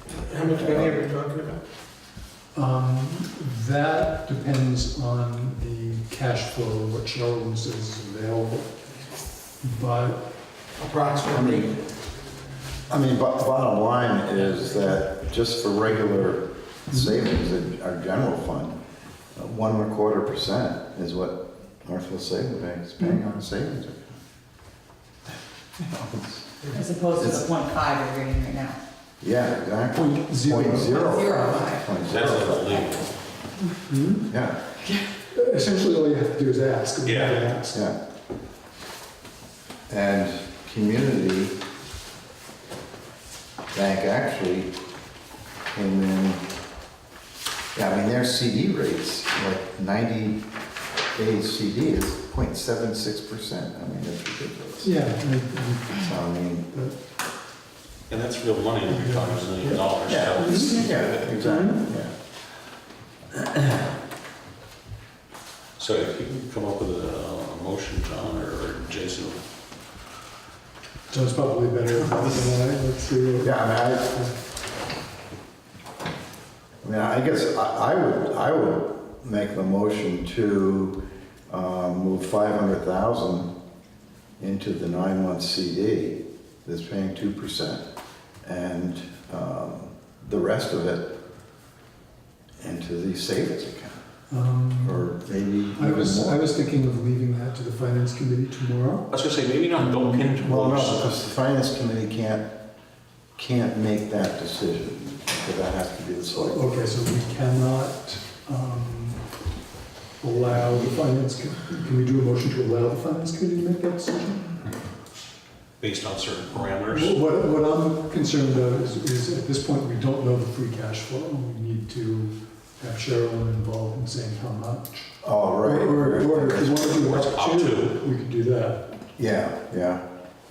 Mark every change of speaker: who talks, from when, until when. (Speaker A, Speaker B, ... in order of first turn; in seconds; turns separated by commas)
Speaker A: 0.3-1.6, Speaker B: 0.4-1.1, Speaker C: 2.5-8.7, Speaker C: 9.6-10.2, Speaker A: 10.8-11.8, Speaker B: 11.3-11.7, Speaker B: 12.9-18.8, Speaker B: 19.4-24.2, Speaker C: 23.0-23.3, Speaker B: 25.8-26.7, Speaker D: 26.7-28.8, Speaker B: 29.2-33.0, Speaker C: 30.0-31.0, Speaker D: 30.9-31.9, Speaker E: 32.1-33.1, Speaker C: 33.9-34.3, Speaker B: 34.3-34.6, Speaker C: 35.3-37.8, Speaker E: 37.0-37.5, Speaker B: 37.7-38.0, Speaker B: 39.9-41.6, Speaker B: 43.7-44.7, Speaker B: 45.7-46.4, Speaker B: 47.8-50.4, Speaker B: 51.1-54.9, Speaker C: 54.8-57.0, Speaker B: 55.9-56.7, Speaker E: 58.1-61.4, Speaker C: 58.9-59.8, Speaker B: 60.0-62.1, Speaker C: 60.4-61.9, Speaker E: 65.8-69.4, Speaker C: 71.1-74.3, Speaker B: 73.4-74.3, Speaker B: 76.8-83.5, Speaker B: 84.4-87.8, Speaker B: 88.4-91.1, Speaker B: 92.6-94.0, Speaker C: 94.3-95.1, Speaker B: 94.8-96.4, Speaker C: 95.8-99.1, Speaker E: 99.1-101.2, Speaker C: 99.8-100.3, Speaker B: 100.3-102.5, Speaker B: 103.4-106.8, Speaker C: 106.3-109.3, Speaker C: 110.2-114.6, Speaker E: 115.8-117.2, Speaker C: 116.9-125.1, Speaker B: 125.2-126.9, Speaker C: 125.6-128.9, Speaker E: 126.8-128.0, Speaker B: 129.2-130.0